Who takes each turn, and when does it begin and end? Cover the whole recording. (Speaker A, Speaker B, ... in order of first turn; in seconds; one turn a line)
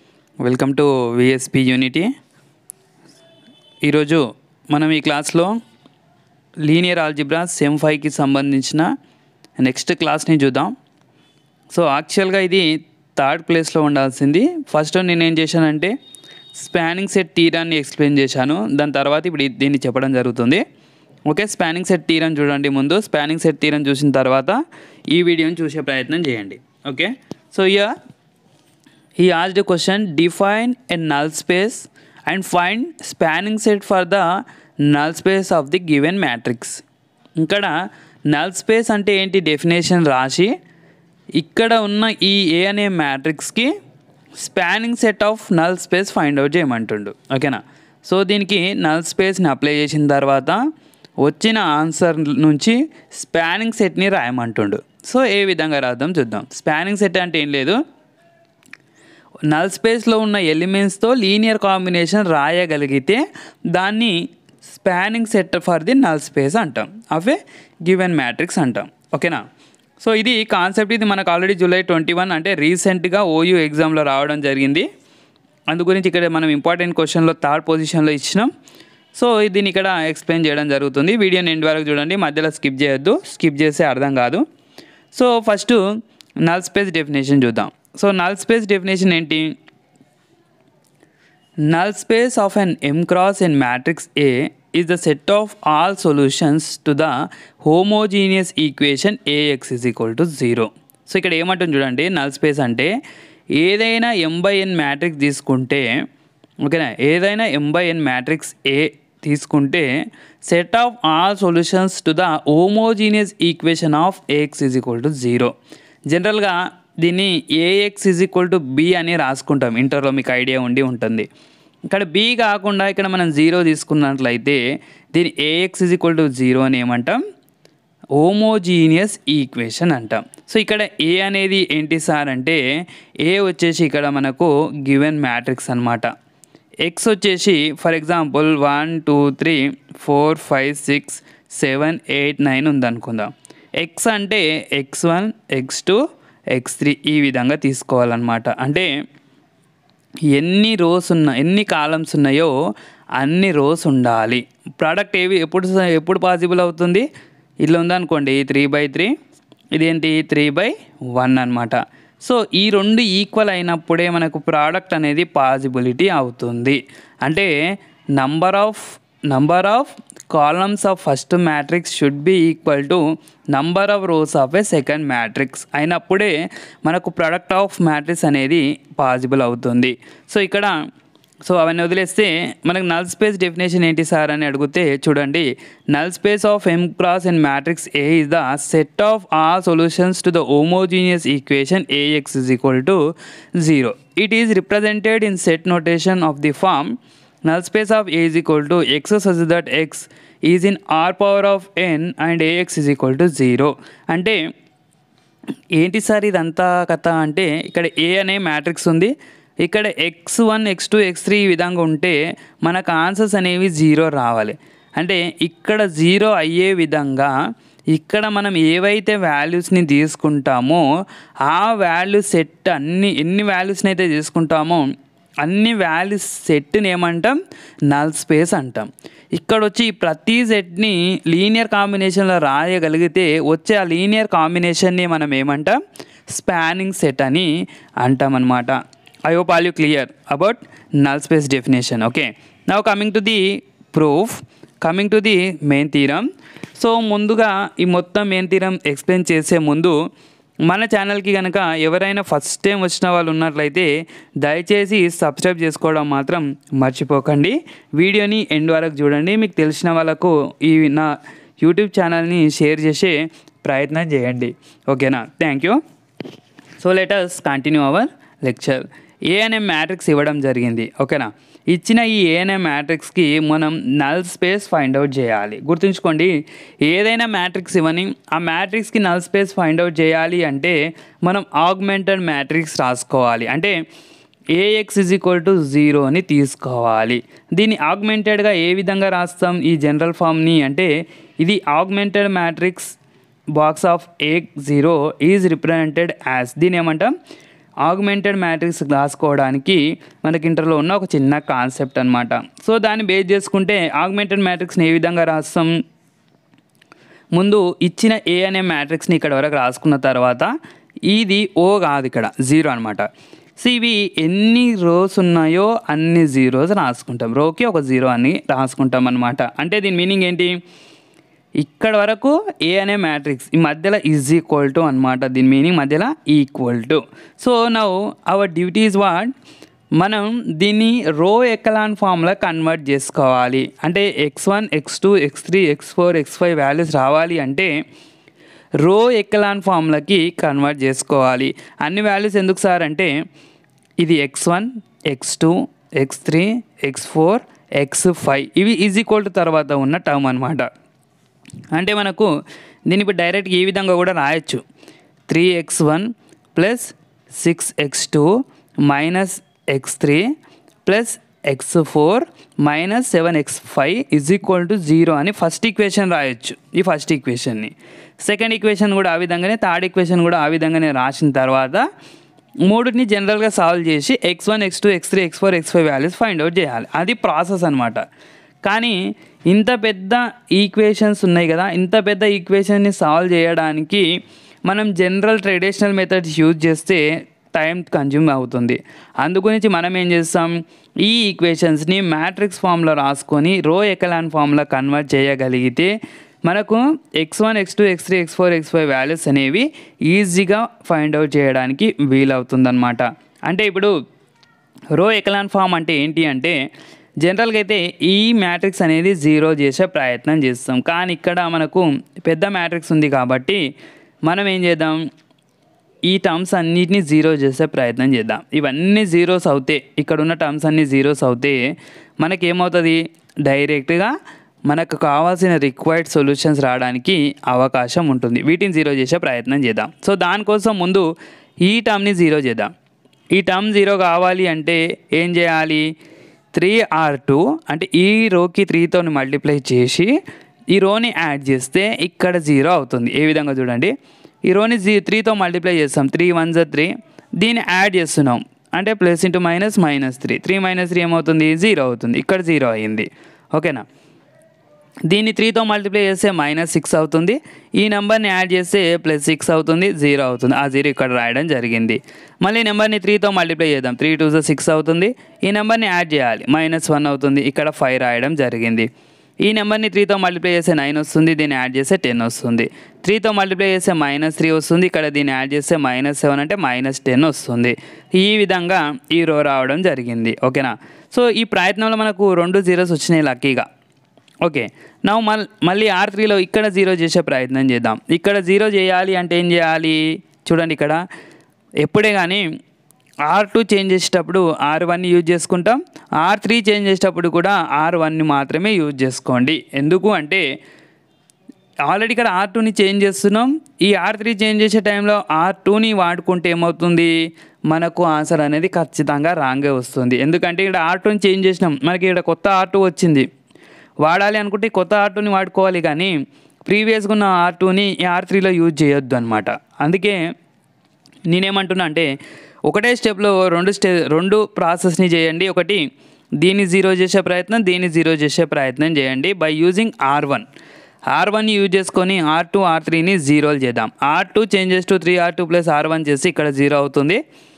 Speaker A: 0.4-2.1
Speaker A: 3.8-5.6
Speaker A: 6.7-8.9
Speaker A: 9.6-10.7
Speaker A: 11.7-15.9
Speaker A: 16.6-20.6
Speaker A: 21.3-24.6
Speaker A: 25.1-27.9
Speaker A: 29.2-34.3
Speaker A: 34.8-36.8
Speaker A: 37.4-37.7
Speaker A: 38.3-40.5
Speaker A: 41.4-43.7
Speaker A: 44.4-50.6
Speaker A: 51.2-57.8
Speaker A: 59.5-63.2
Speaker A: 63.7-69.4
Speaker A: 70.0-74.9
Speaker A: 75.7-78.5
Speaker A: 79.2-84.5
Speaker A: 85.1-85.8
Speaker A: 86.4-89.5
Speaker A: 91.7-102.9
Speaker A: 103.5-106.0
Speaker A: 106.6-109.9
Speaker A: 110.4-115.5
Speaker A: 116.1-121.3
Speaker A: 121.9-124.6
Speaker A: 125.1-127.2
Speaker A: 128.2-132.6
Speaker A: 133.2-136.1
Speaker A: 136.8-146.0
Speaker A: 146.5-148.9
Speaker A: 150.3-152.5
Speaker A: 153.2-157.1
Speaker A: 157.6-159.1
Speaker A: 159.8-167.5
Speaker A: 168.2-176.3
Speaker A: 176.8-180.7
Speaker A: 181.5-193.0
Speaker A: 193.6-204.4
Speaker A: 205.8-209.1
Speaker A: 209.6-217.3
Speaker A: 217.9-220.8
Speaker A: 221.4-224.9
Speaker A: 225.4-235.8
Speaker A: 236.3-237.5
Speaker A: 238.0-246.3
Speaker A: 246.8-250.0
Speaker A: 250.7-253.9
Speaker A: 254.4-265.8
Speaker A: 266.8-283.8
Speaker A: 284.5-290.9
Speaker A: 291.4-293.0
Speaker A: 293.6-297.1
Speaker A: 297.9-305.7
Speaker A: 307.4-310.5
Speaker A: 311.1-313.1
Speaker A: 313.6-320.6
Speaker A: 321.6-329.3
Speaker A: 330.0-337.7
Speaker A: 338.8-343.1
Speaker A: 344.0-350.7
Speaker A: 351.7-352.3
Speaker A: 352.9-354.6
Speaker A: 355.3-358.3
Speaker A: 358.9-360.3
Speaker A: 360.9-371.9
Speaker A: 372.7-378.0
Speaker A: 378.6-384.1
Speaker A: 384.7-387.0
Speaker A: 387.6-395.9
Speaker A: 396.5-403.9
Speaker A: 404.9-406.6
Speaker A: 407.2-413.6
Speaker A: 414.3-415.0
Speaker A: 416.1-421.6
Speaker A: 422.2-424.1
Speaker A: 424.7-431.1
Speaker A: 431.6-432.7
Speaker A: 433.3-435.9
Speaker A: 436.5-440.1
Speaker A: 440.7-443.9
Speaker A: 444.5-453.9
Speaker A: 455.1-468.9
Speaker A: 469.4-483.7
Speaker A: 484.4-491.0
Speaker A: 491.8-492.5
Speaker A: 493.3-500.5
Speaker A: 501.9-507.1
Speaker A: 507.7-513.3
Speaker A: 514.0-516.1
Speaker A: 516.7-520.2
Speaker A: 521.3-522.1
Speaker A: 522.7-525.8
Speaker A: 526.4-530.5
Speaker A: 531.1-537.2